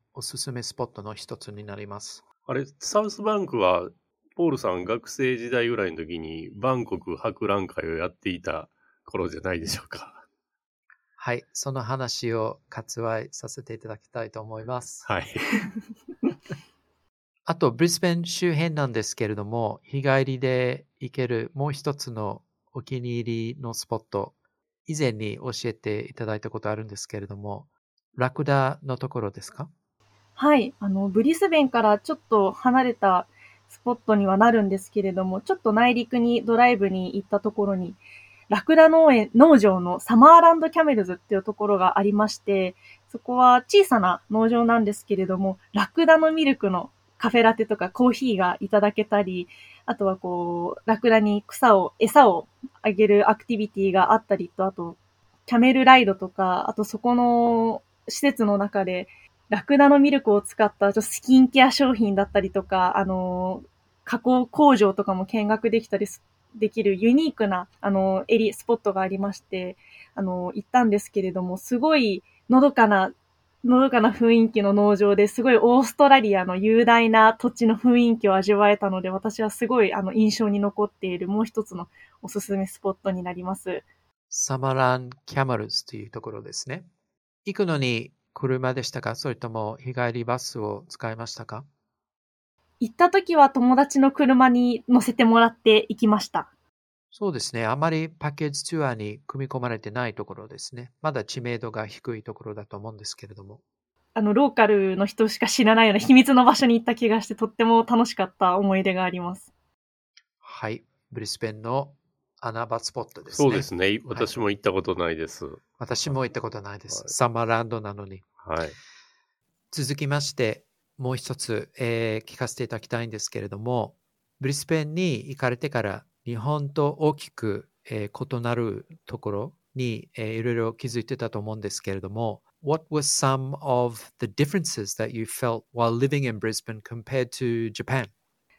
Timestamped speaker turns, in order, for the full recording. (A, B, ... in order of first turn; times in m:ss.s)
0:00.2-0:02.2 A
0:02.5-0:10.2 B
0:11.2-0:15.0 A
0:15.1-0:15.5 B
0:17.5-0:24.4 A
0:24.9-0:29.7 A
0:30.4-1:13.1 C
1:13.6-1:23.8 C
1:24.3-1:26.9 A
1:27.4-1:31.7 A
1:32.8-1:36.5 C
1:37.1-1:43.6 A
1:44.2-1:49.5 C
1:50.4-1:54.4 A
1:53.3-1:56.2 B
1:55.8-1:58.2 A
1:58.4-1:58.8 B
1:59.7-2:18.1 A